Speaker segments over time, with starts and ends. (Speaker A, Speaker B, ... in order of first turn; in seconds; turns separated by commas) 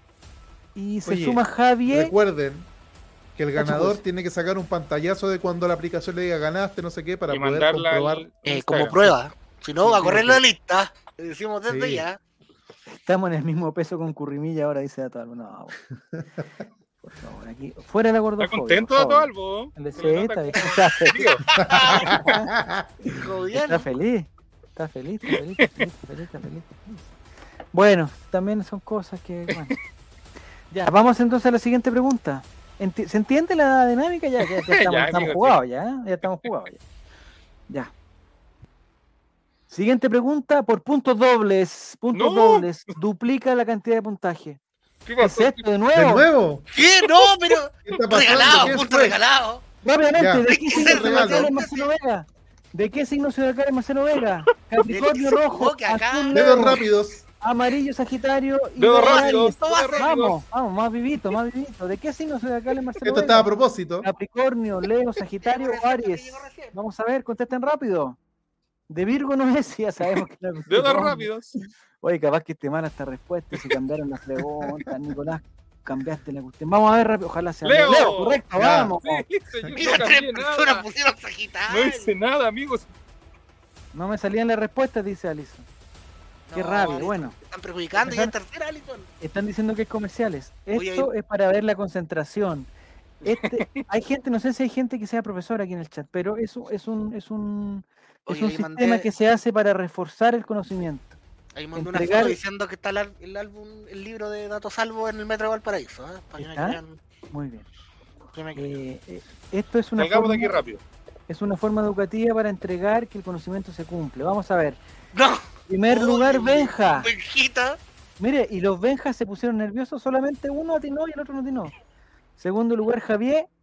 Speaker A: 0.7-2.1, Speaker B: 1.0-2.7, Speaker B: 3.4-8.2, Speaker A: 3.6-4.0, Speaker C: 7.3-9.1, Speaker D: 8.4-12.2, Speaker A: 9.8-10.4, Speaker B: 11.7-12.0, Speaker A: 12.9-15.8, Speaker A: 17.0-21.3, Speaker C: 18.4-22.0, Speaker D: 21.4-22.3, Speaker B: 21.6-22.9, Speaker A: 22.1-22.5, Speaker D: 23.1-23.9, Speaker A: 23.6-26.8, Speaker A: 27.7-29.7, Speaker A: 30.7-36.8, Speaker C: 34.4-35.6, Speaker A: 39.7-44.6, Speaker C: 42.1-42.8, Speaker C: 45.0-45.6, Speaker A: 45.2-46.2, Speaker B: 45.9-46.6, Speaker D: 46.7-49.6, Speaker C: 47.0-47.6, Speaker B: 47.9-49.2, Speaker A: 49.8-56.8, Speaker B: 50.2-51.5, Speaker D: 50.5-51.9, Speaker D: 54.9-56.7, Speaker B: 56.3-57.2, Speaker A: 57.4-68.2, Speaker C: 58.8-60.4, Speaker D: 59.0-60.1, Speaker B: 63.0-64.1, Speaker D: 65.4-66.7, Speaker A: 68.9-71.3, Speaker C: 70.7-71.6, Speaker A: 72.0-79.2, Speaker C: 77.6-78.4, Speaker B: 78.5-78.9, Speaker C: 79.0-80.8, Speaker D: 79.7-82.1, Speaker C: 81.7-82.9, Speaker A: 83.9-85.7, Speaker D: 86.5-89.1, Speaker A: 86.5-87.3, Speaker A: 88.0-88.3, Speaker A: 89.2-92.7, Speaker D: 90.7-91.1, Speaker A: 93.2-101.2, Speaker C: 93.4-93.8, Speaker D: 98.3-99.1, Speaker D: 101.5-107.0, Speaker A: 101.7-102.4, Speaker A: 106.4-106.8, Speaker A: 107.3-107.6, Speaker D: 108.3-108.8, Speaker A: 108.5-110.6, Speaker C: 110.0-110.8, Speaker A: 111.3-114.8, Speaker D: 115.1-117.8, Speaker A: 115.7-117.1, Speaker A: 118.2-121.7, Speaker A: 122.4-123.5